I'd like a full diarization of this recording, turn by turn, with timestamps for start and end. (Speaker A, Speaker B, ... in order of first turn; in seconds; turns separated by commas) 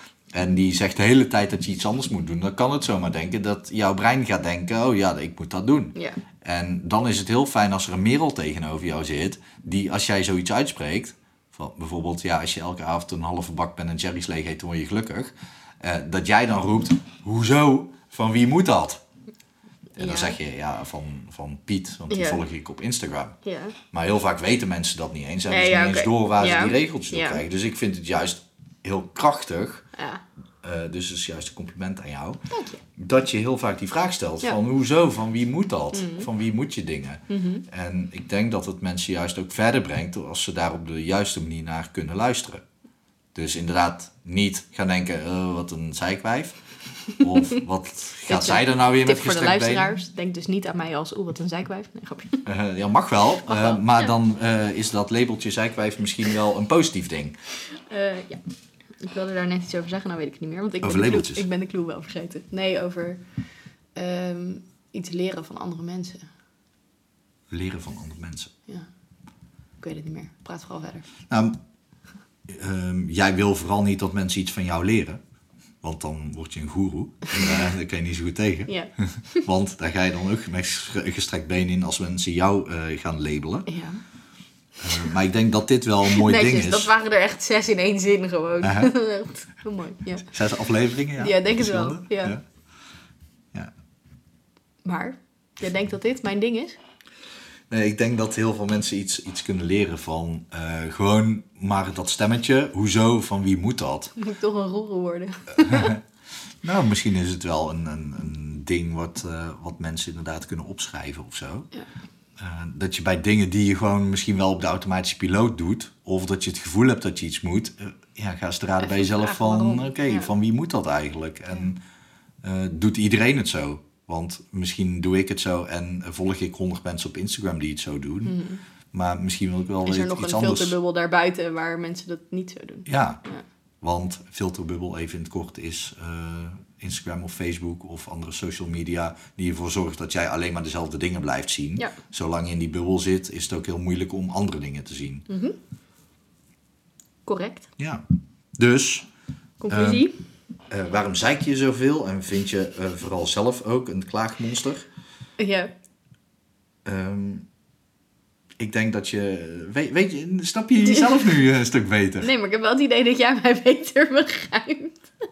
Speaker A: 0.3-19.0, Speaker B: 5.9-6.2, Speaker B: 20.0-20.4, Speaker A: 20.0-23.4, Speaker B: 22.1-22.4, Speaker B: 23.4-23.8, Speaker A: 23.9-29.9, Speaker B: 25.5-27.4, Speaker B: 29.9-30.2, Speaker A: 30.6-32.4, Speaker B: 32.5-32.8, Speaker A: 33.0-42.6, Speaker B: 35.9-36.3, Speaker B: 37.3-37.6, Speaker A: 43.3-46.6, Speaker A: 47.2-49.9, Speaker B: 48.3-52.5, Speaker A: 52.5-57.4, Speaker B: 53.4-54.1, Speaker B: 57.9-58.4, Speaker B: 59.0-63.2, Speaker A: 60.8-61.5, Speaker B: 64.0-66.3, Speaker A: 67.5-68.5, Speaker B: 69.8-71.1, Speaker A: 71.3-71.6, Speaker A: 72.5-75.2, Speaker A: 75.8-83.7, Speaker B: 77.3-77.7, Speaker B: 78.7-79.5, Speaker B: 83.7-84.0, Speaker A: 84.8-86.9, Speaker B: 86.0-90.3, Speaker A: 88.6-88.9, Speaker A: 90.2-92.4, Speaker B: 91.2-92.3, Speaker B: 94.8-96.8, Speaker A: 97.7-104.1, Speaker B: 104.2-105.9, Speaker A: 105.6-106.0, Speaker A: 106.6-111.7, Speaker A: 112.4-121.8, Speaker B: 118.8-120.3, Speaker A: 122.4-128.4, Speaker B: 128.2-128.6, Speaker A: 128.9-130.7, Speaker B: 129.8-133.4, Speaker A: 132.8-133.2, Speaker A: 133.8-145.2, Speaker B: 145.3-145.6, Speaker B: 147.2-147.7, Speaker A: 148.6-149.1, Speaker B: 149.6-150.1, Speaker A: 149.7-150.0, Speaker A: 150.7-154.9, Speaker B: 155.4-155.7, Speaker A: 156.8-157.4, Speaker A: 158.6-162.3, Speaker B: 160.8-161.2, Speaker B: 162.2-165.0